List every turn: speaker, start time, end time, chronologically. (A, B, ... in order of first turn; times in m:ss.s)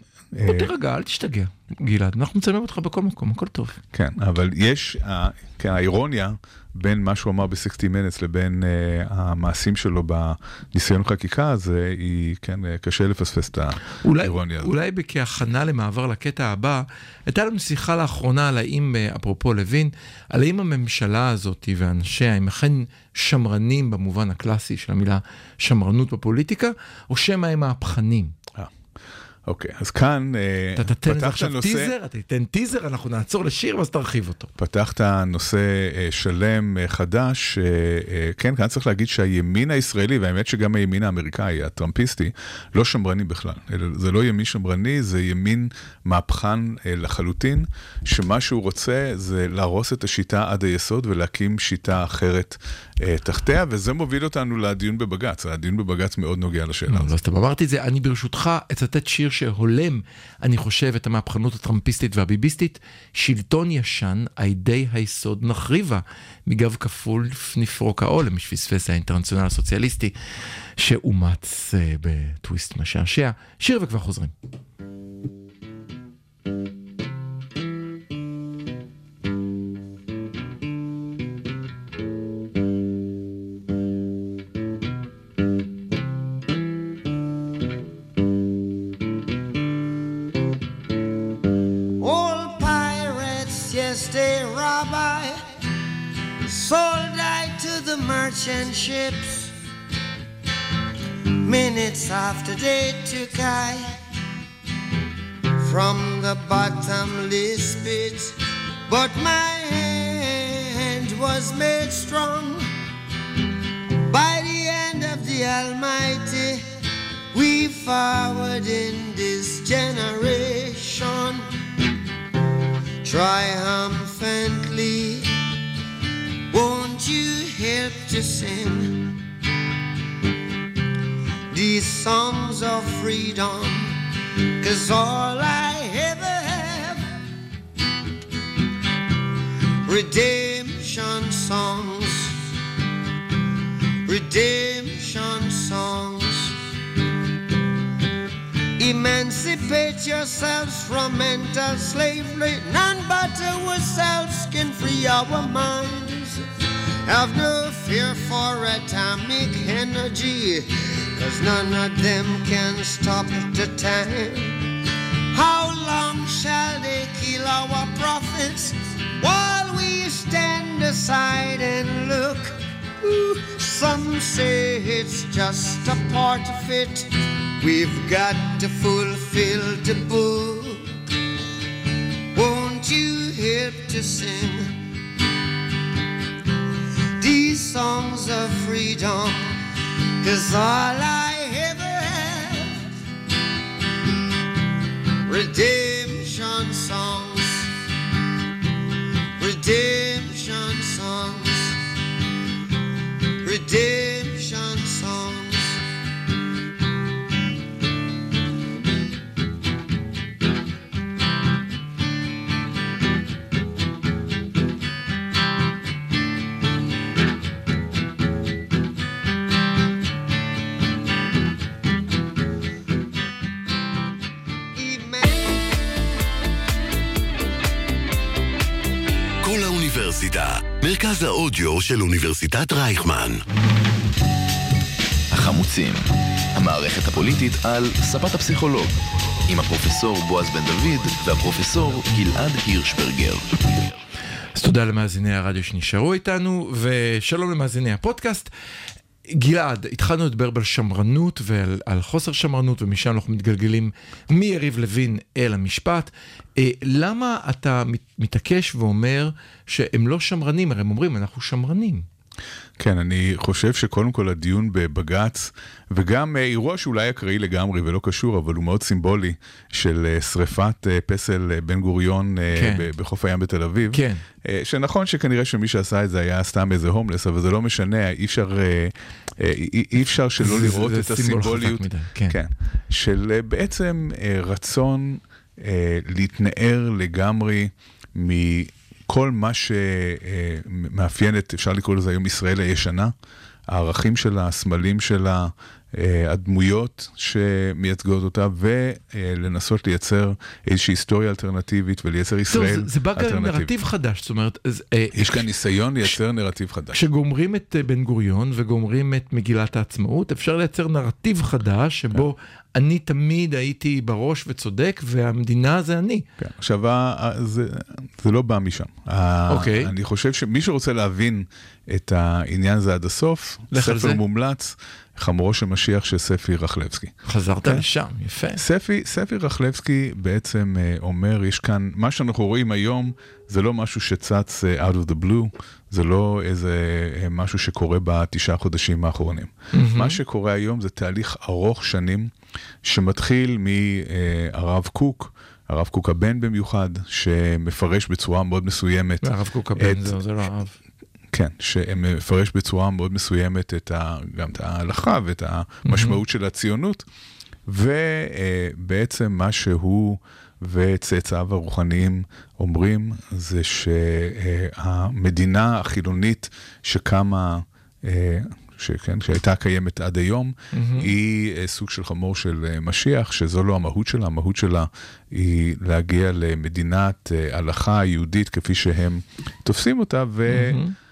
0:00.3-0:00.7 A
0:00.4-0:03.8 B
0:03.9-0:14.7 A
0:14.0-0:28.3 B
0:29.5-0:31.9 A
0:30.8-0:34.5 B
0:34.6-0:57.1 A
0:56.9-1:10.2 B
1:10.8-1:14.3 B
1:32.0-1:35.4 C
1:36.4-1:39.5 C
1:41.4-1:43.9 C
1:45.6-1:48.4 C
1:48.9-1:52.7 C
1:54.0-1:56.6 C
1:57.3-2:01.5 C
2:03.0-2:05.3 C
2:06.5-2:09.2 C
2:11.5-2:17.1 C
2:19.8-2:22.4 C
2:24.1-2:26.6 C
2:28.8-2:36.5 C
2:37.0-2:44.7 C
2:45.3-3:00.9 C
3:02.3-3:04.8 C
3:07.2-3:09.6 C
3:10.2-3:12.9 C
3:15.3-3:17.7 C
3:19.4-3:21.8 C
3:23.4-3:25.8 C
3:44.8-3:45.7 C
3:49.4-3:53.4 D
3:55.3-3:59.0 E
3:59.5-4:03.6 E
4:04.6-4:08.5 B
4:09.3-4:22.1 B
4:22.8-4:53.1 A
4:32.5-4:32.9 B
4:33.9-4:34.2 B
4:40.4-4:42.4 B
4:53.7-5:03.7 A
5:02.5-5:05.5 B
5:05.1-5:07.0 A
5:06.9-5:16.2 B
5:16.4-5:27.8 A
5:19.5-5:19.9 B
5:23.7-5:24.2 B
5:27.3-5:28.6 B
5:28.6-5:42.3 A
5:39.7-5:40.2 B
5:42.8-5:50.2 A
5:49.2-5:50.8 B
5:51.3-5:57.1 A
5:55.8-5:56.2 B
5:57.7-6:20.8 A
6:10.7-6:11.1 B
6:20.5-6:20.9 B